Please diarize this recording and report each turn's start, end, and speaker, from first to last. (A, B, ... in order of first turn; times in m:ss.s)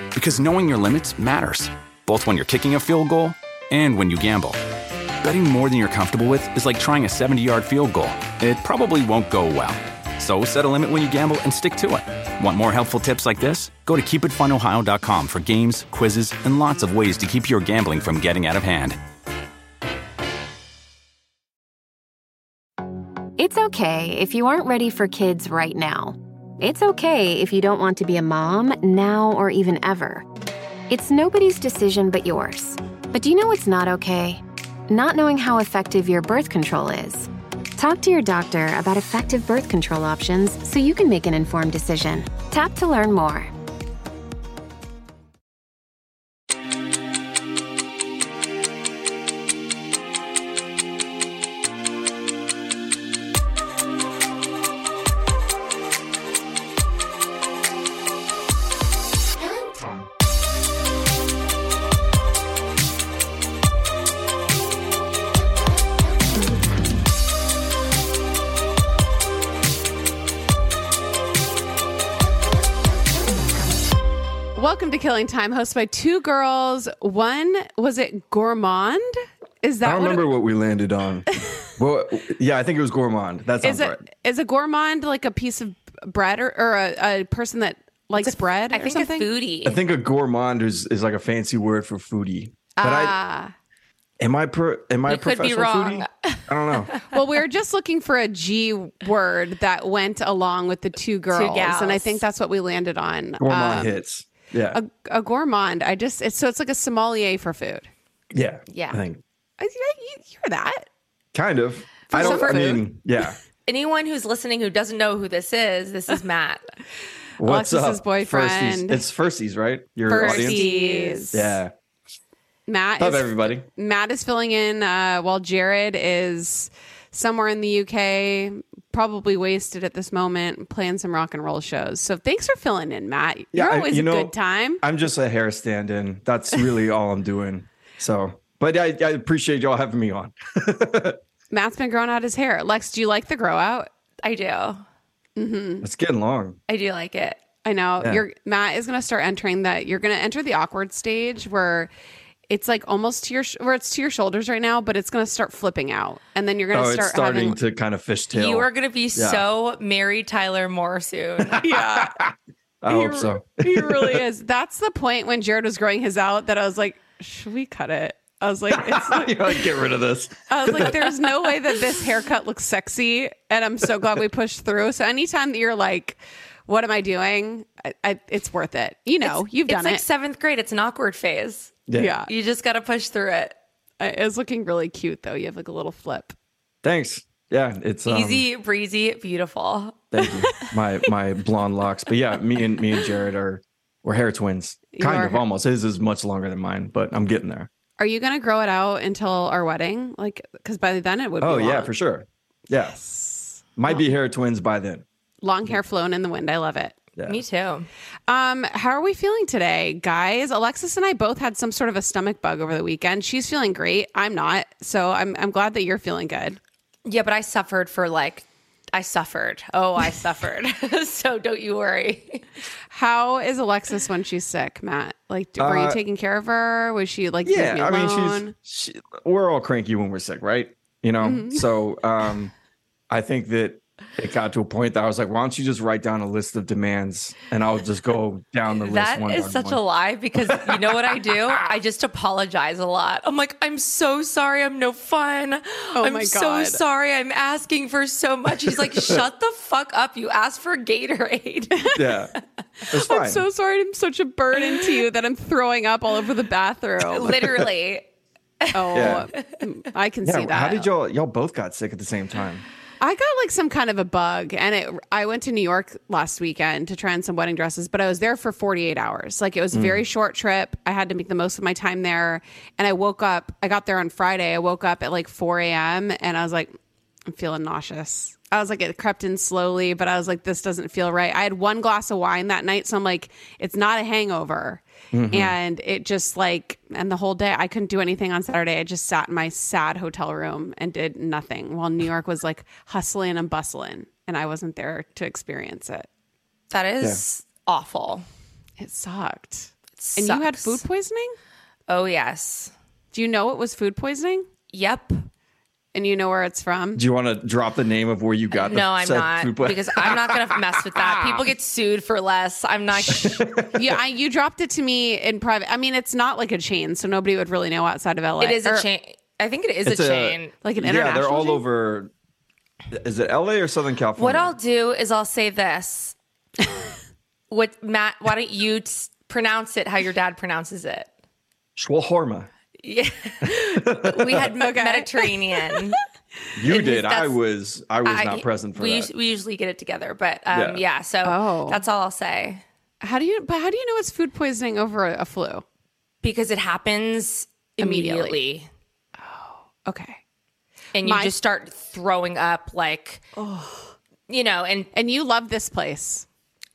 0:00.1-0:04.6 A
0:05.2-0:19.0 A
0:23.4-0:30.3 B
0:30.9-0:43.5 B
1:14.6-1:20.3 C
1:19.8-1:24.0 D
1:23.6-1:29.2 C
1:28.2-1:29.8 E
1:29.6-1:33.2 D
1:32.8-1:33.5 C
1:34.2-1:36.9 D
1:35.1-1:37.1 E
1:37.1-1:44.0 C
1:41.3-1:42.2 E
1:43.4-1:44.8 D
1:44.7-1:47.9 C
1:48.3-1:49.2 D
1:48.7-1:49.0 E
1:49.6-1:50.9 C
1:51.3-1:53.4 D
1:52.1-1:52.9 C
1:53.7-1:56.6 E
1:57.4-2:00.7 D
1:57.4-1:59.0 C
2:00.1-2:01.6 C
2:00.1-2:01.3 E
2:01.3-2:01.7 D
2:02.7-2:14.8 C
2:03.0-2:03.7 D
2:13.5-2:21.2 D
2:21.5-2:23.9 C
2:24.2-2:24.8 E
2:25.4-2:25.9 C
2:25.8-2:26.6 D
2:26.7-2:27.4 E
2:27.6-2:31.9 C
2:32.5-2:37.6 C
2:36.7-2:39.4 D
2:38.3-2:41.6 E
2:41.4-2:44.2 D
2:41.6-2:42.2 C
2:42.9-2:49.6 C
2:48.7-2:51.0 D
2:50.5-3:00.0 C
2:59.2-3:03.5 E
3:01.9-3:02.2 D
3:02.0-3:02.3 C
3:04.0-3:06.4 C
3:06.8-3:08.4 D
3:08.1-3:10.0 E
3:10.1-3:17.7 D
3:14.9-3:15.4 C
3:18.0-3:21.9 C
3:21.4-3:23.0 D
3:22.7-3:24.0 C
3:23.8-3:25.0 D
3:25.4-3:27.0 C
3:27.2-3:27.4 D
3:27.3-3:27.9 E
3:28.3-3:36.6 C
3:37.0-3:42.4 E
3:42.9-3:48.5 C
3:45.6-3:46.0 D
3:47.4-3:52.5 D
3:51.2-3:51.7 C
3:53.1-3:59.8 D
3:58.8-4:12.0 E
4:00.4-4:01.6 D
4:06.0-4:06.8 C
4:08.6-4:09.2 D
4:12.0-4:12.3 D
4:12.9-4:13.4 D
4:12.9-4:17.4 C
4:17.1-4:18.0 E
4:18.6-4:19.4 E
4:18.7-4:20.9 C
4:18.9-4:19.3 D
4:20.2-4:22.6 D
4:23.0-4:36.8 C
4:29.7-4:30.0 D
4:37.3-4:56.1 C
4:45.1-4:45.6 D
4:56.7-4:58.2 E
4:58.8-5:01.3 C
5:00.0-5:00.8 E
5:01.9-5:02.7 E
5:03.1-5:04.5 C
5:04.7-5:05.1 E
5:05.9-5:07.0 C
5:07.0-5:11.5 D
5:08.5-5:13.4 E
5:13.1-5:14.0 D
5:13.7-5:18.8 C
5:18.4-5:20.5 E
5:19.8-5:22.1 D
5:20.6-5:21.6 C
5:22.9-5:24.6 D
5:24.2-5:26.2 E
5:27.5-5:31.1 E
5:31.8-5:32.5 D
5:32.8-5:36.0 E
5:33.4-5:34.5 D
5:34.6-5:35.8 C
5:36.6-5:39.1 D
5:36.7-5:37.4 E
5:38.0-5:42.6 E
5:40.5-5:40.8 D
5:41.2-5:41.8 C
5:43.0-5:45.6 C
5:46.2-5:48.7 E
5:47.8-5:48.4 C
5:49.2-5:50.2 C
5:51.0-5:53.2 E
5:51.0-5:51.3 C
5:53.4-5:53.9 C
5:54.3-5:54.9 E
5:54.9-5:56.3 C